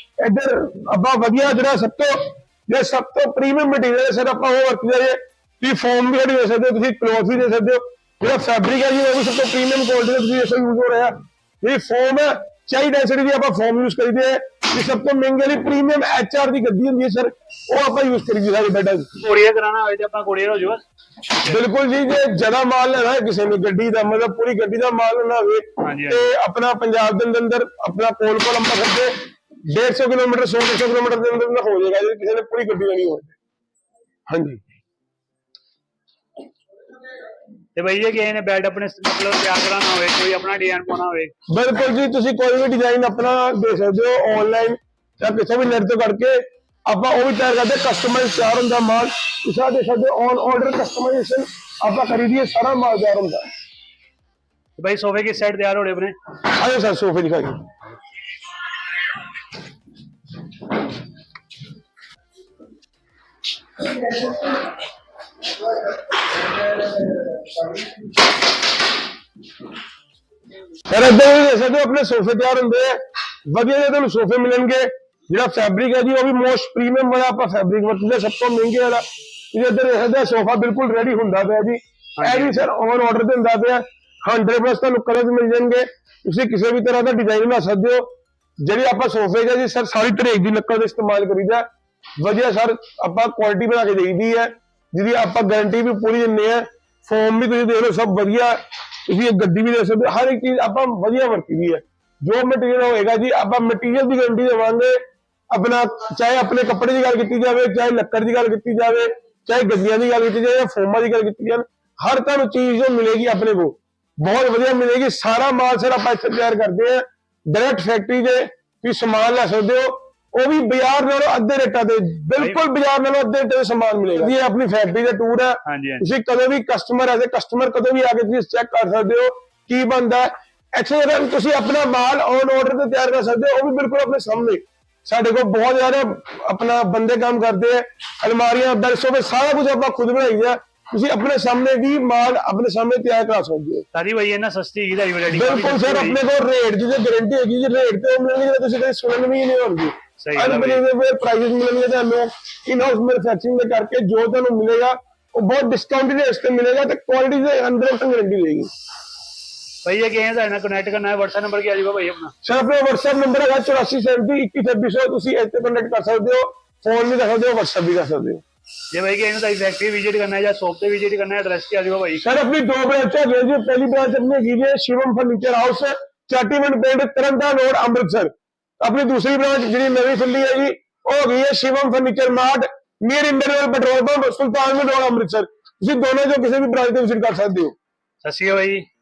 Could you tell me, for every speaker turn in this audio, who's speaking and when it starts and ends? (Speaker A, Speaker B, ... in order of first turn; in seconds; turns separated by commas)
Speaker A: 0.2-19.1, Speaker B: 19.2-20.8, Speaker A: 21.4-29.2, Speaker B: 25.8-26.3, Speaker A: 29.7-33.3, Speaker A: 34.3-34.6, Speaker B: 37.8-41.3, Speaker A: 41.5-53.5, Speaker B: 54.8-56.1, Speaker A: 56.5-57.6, Speaker A: 70.9-91.7, Speaker B: 82.2-82.7, Speaker A: 92.2-105.0, Speaker A: 105.5-143.9, Speaker B: 122.4-122.6, Speaker B: 125.7-126.1, Speaker B: 143.9-146.2, Speaker A: 145.3-158.7, Speaker B: 150.2-150.8, Speaker B: 159.8-162.3, Speaker A: 162.4-168.4, Speaker B: 168.9-172.2, Speaker A: 172.2-187.8, Speaker B: 188.2-188.9